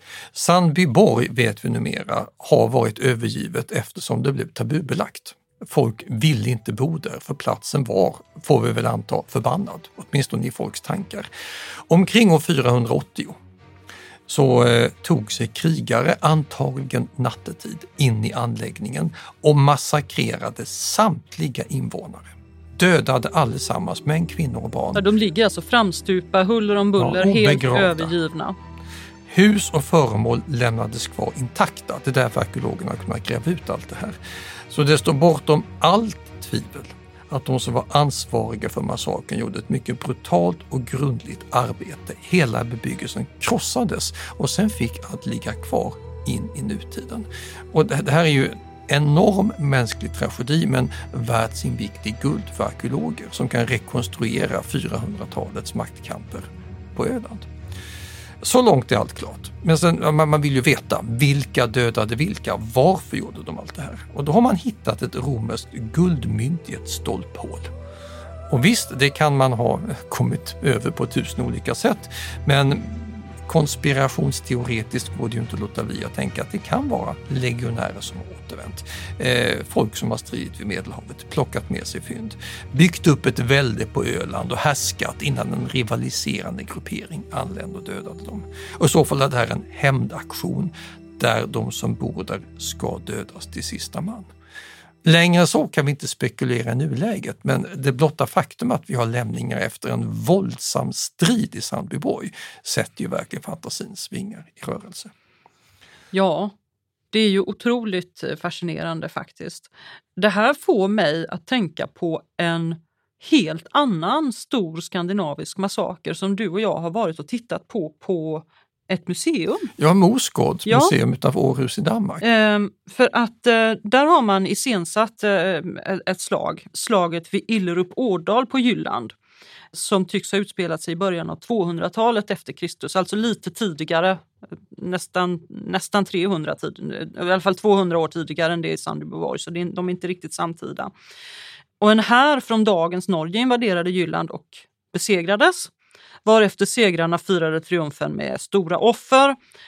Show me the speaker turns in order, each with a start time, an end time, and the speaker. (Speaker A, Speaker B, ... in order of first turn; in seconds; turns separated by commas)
Speaker A: 0.3-11.3, Speaker A: 11.9-13.4, Speaker A: 14.3-25.0, Speaker B: 24.9-28.6, Speaker A: 27.0-28.1, Speaker A: 29.3-34.2, Speaker A: 34.7-57.5, Speaker A: 58.4-67.7, Speaker A: 68.5-94.3, Speaker A: 95.0-105.1, Speaker B: 106.1-106.5, Speaker B: 107.1-119.7, Speaker A: 119.8-122.2, Speaker B: 120.7-120.9, Speaker B: 122.2-129.1, Speaker B: 129.7-140.9, Speaker B: 141.8-145.7, Speaker B: 146.2-149.4